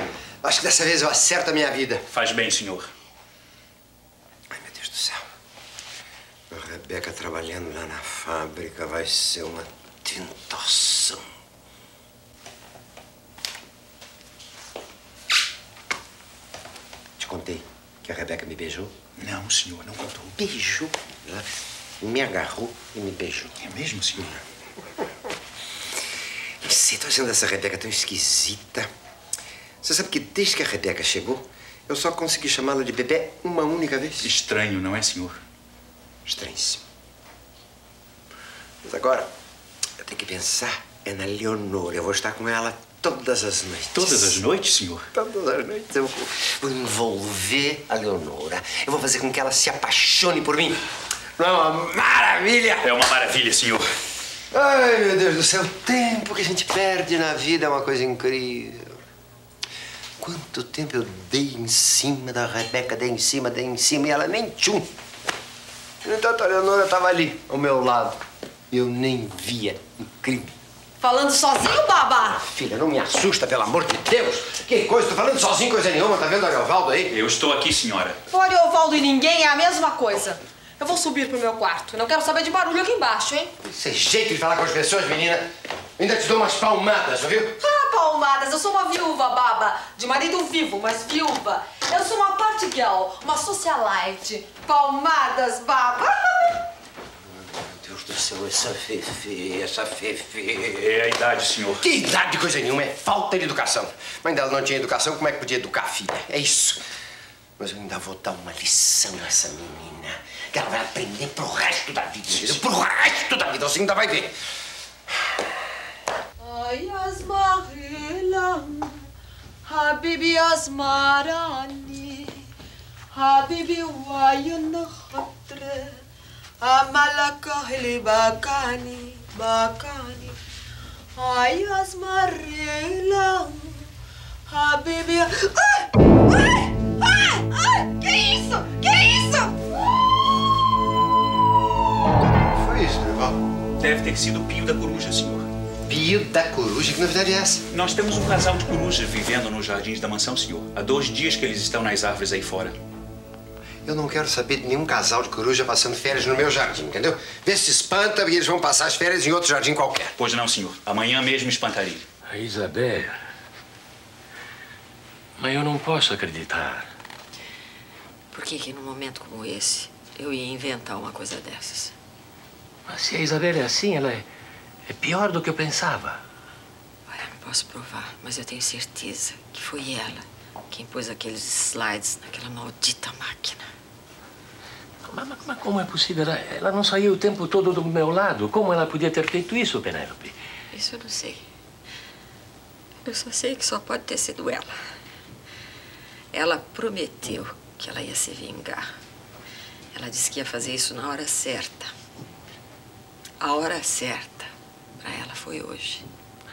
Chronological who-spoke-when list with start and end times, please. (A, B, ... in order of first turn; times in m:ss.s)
0:00.4-0:02.0 A
0:02.1-0:02.9 B
0:04.5-0:05.2 A
0:06.5-0:11.2 A
0:17.2-0:18.9 A
0:19.2-0:20.4 B
0:20.4-0:21.5 A
0:22.0-0:23.5 A
0:23.6-0:24.4 B
0:26.6-0:28.9 A
0:29.8-0:34.3 A
0:34.2-0:35.4 B
0:36.2-0:36.8 A
0:38.8-0:39.3 A
0:40.0-0:44.4 A
0:43.9-0:45.0 B
0:45.1-0:50.8 A
0:51.4-0:52.9 A
0:52.8-0:53.8 B
0:54.5-0:59.0 A
1:00.2-1:04.9 A
1:06.0-1:08.2 A
1:08.7-1:10.5 A
1:11.0-1:12.3 C
1:12.2-1:17.1 A
1:17.1-1:18.2 B
1:18.3-1:23.5 C
1:23.6-1:25.4 A
1:26.0-1:27.6 A
1:27.6-1:36.5 C
1:37.4-1:41.0 A
1:40.8-1:41.9 B
1:41.8-1:46.8 A
1:47.6-1:54.3 A
1:56.4-1:59.0 C
1:59.6-2:02.4 C
2:03.1-2:06.0 C
2:06.6-2:10.4 C
2:11.2-2:13.9 C
2:14.5-2:19.6 C
2:22.5-2:23.4 A
2:23.8-2:25.5 B
2:25.8-2:27.6 A
2:27.7-2:32.8 B
2:33.8-2:40.1 A
2:40.2-2:42.0 B
2:42.3-2:43.2 D
2:45.4-2:46.9 D
2:48.3-2:51.9 E
2:52.9-2:54.3 D
2:54.9-2:56.2 D
2:57.1-3:03.6 E
3:05.0-3:10.4 D
3:10.7-3:11.4 E
3:13.0-3:14.7 E
3:16.3-3:18.8 E
3:19.9-3:21.9 E
3:23.4-3:24.5 E
3:25.0-3:26.0 E